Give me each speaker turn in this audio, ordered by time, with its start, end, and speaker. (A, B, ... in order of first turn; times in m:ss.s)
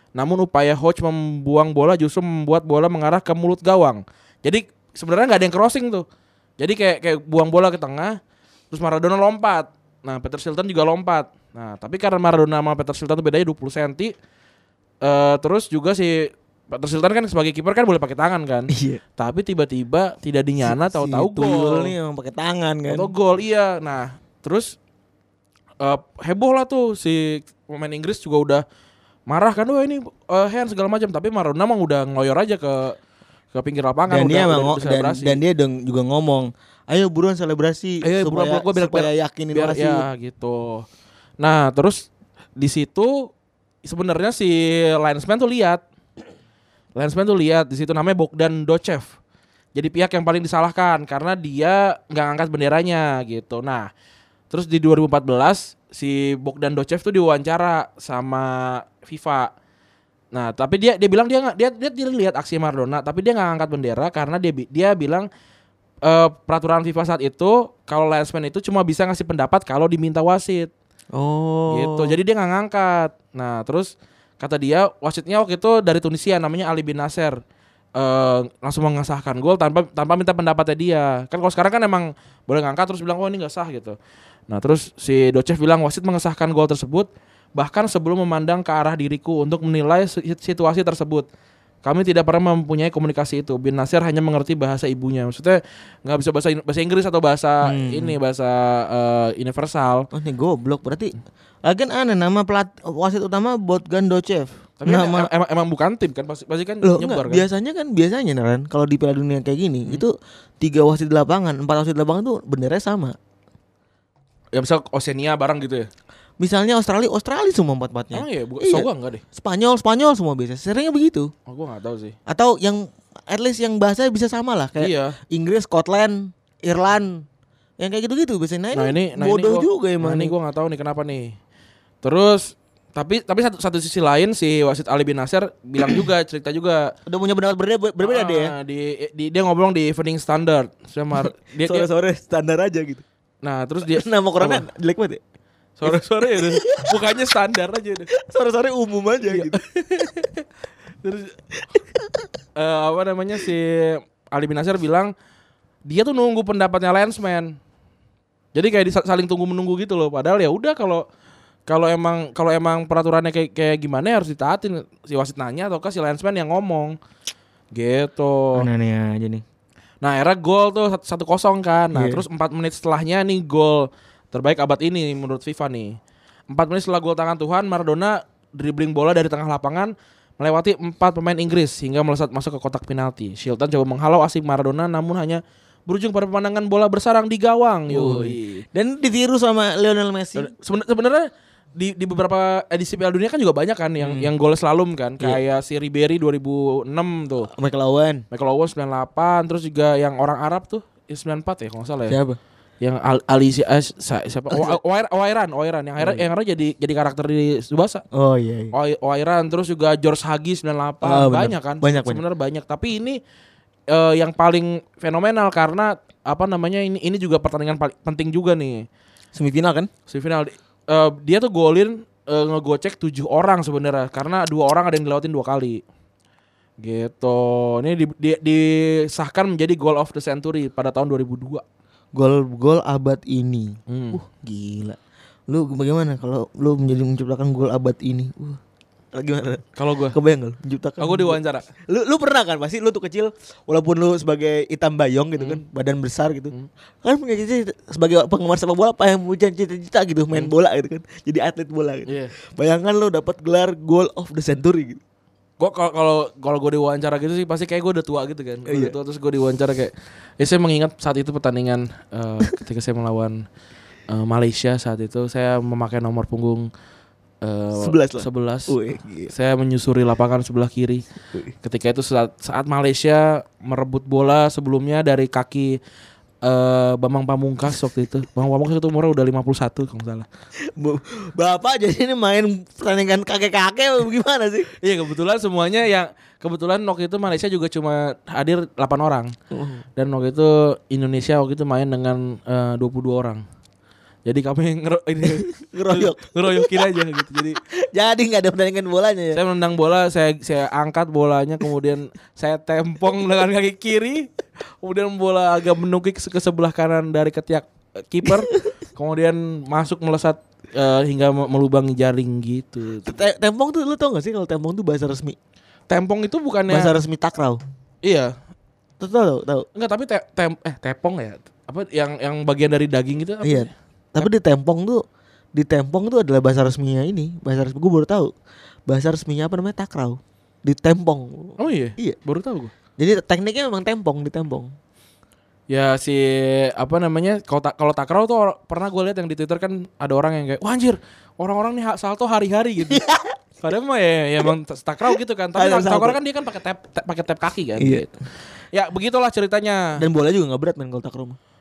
0:00.2-0:06.0 A
0:06.6-0:08.2 A
0:08.7-0:14.1 A
0:15.0-0:21.9 A
0:18.7-0:19.0 B
0:20.6-0:23.1 B
0:22.9-0:24.8 A
0:25.8-0:28.6 A
0:29.3-0:33.0 A
0:33.5-0:35.4 A
0:34.1-0:40.0 B
0:38.0-0:40.8 A
0:41.4-0:43.3 A
0:43.8-0:45.8 A
0:47.0-0:49.1 A
0:49.8-0:53.9 A
0:54.5-0:59.5 A
1:00.3-1:05.3 A
1:06.0-1:10.7 A
1:11.1-1:12.2 B
1:11.7-1:17.4 A
1:18.0-1:24.0 A
1:24.5-1:31.3 A
1:31.8-1:40.1 A
1:37.6-1:38.2 B
1:40.1-1:45.3 B
1:44.8-1:47.5 A
1:46.8-1:53.2 B
1:54.5-1:55.9 A
1:56.4-2:01.3 B
1:58.1-1:59.2 A
2:01.5-2:02.2 A
2:02.3-2:07.2 B
2:04.8-2:05.2 A
2:07.8-2:10.3 B
2:08.7-2:11.4 A
2:12.0-2:16.9 A
2:17.1-2:18.5 B
2:18.0-2:21.9 A
2:21.2-2:23.0 B
2:23.4-2:24.6 A
2:23.9-2:25.2 B
2:25.8-2:28.1 A
2:25.9-2:27.0 B
2:28.2-2:29.6 B
2:29.3-2:30.4 A
2:31.0-2:31.4 A
2:32.6-2:35.1 A
2:35.8-2:37.6 A
2:38.6-2:41.0 A
2:41.7-2:47.0 A
2:47.7-2:48.7 A
2:48.6-2:49.4 B
2:50.0-2:56.0 A
2:51.9-2:52.2 B
2:56.5-3:08.6 A
3:07.9-3:10.5 B
3:10.4-3:17.5 A
3:14.0-3:14.3 B
3:17.5-3:18.2 B
3:18.3-3:22.2 A
3:22.1-3:22.4 B
3:22.8-3:28.0 A
3:24.5-3:24.8 B
3:26.0-3:26.2 B
3:28.1-3:28.7 B
3:28.7-3:33.2 A
3:31.0-3:32.2 B
3:33.9-3:38.9 A
3:39.3-3:39.9 B
3:40.1-3:45.8 A
3:46.8-3:51.6 A
3:52.1-3:55.0 B
3:53.9-3:54.2 A
3:55.5-3:58.6 B
3:59.1-4:15.0 B
3:59.8-4:00.2 A
4:01.0-4:01.7 A
4:12.1-4:12.3 A
4:15.6-4:23.4 A
4:18.7-4:19.0 B
4:24.1-4:26.7 A
4:27.4-4:28.7 A
4:27.8-4:29.3 B
4:29.3-4:31.0 A
4:31.6-4:35.8 A
4:36.4-4:40.3 A
4:40.7-4:44.7 B
4:44.8-4:49.3 A
4:49.5-4:49.8 B
4:50.0-4:53.4 A
4:54.3-4:57.6 A
4:55.2-4:56.9 B
4:57.9-4:59.4 B
4:59.3-5:04.3 A
5:04.8-5:13.3 A
5:13.0-5:15.4 B
5:15.9-5:17.0 A
5:16.7-5:17.6 B
5:18.0-5:18.3 A
5:19.0-5:19.7 B
5:19.8-5:23.7 A
5:23.4-5:25.0 B
5:25.6-5:28.3 B
5:28.9-5:32.2 B
5:31.6-5:32.7 A
5:33.0-5:34.7 B
5:35.7-5:43.0 A
5:42.9-5:43.3 B
5:43.6-5:48.1 A
5:45.6-5:46.2 B
5:47.8-5:48.1 B
5:48.7-5:50.0 A
5:50.0-5:51.4 B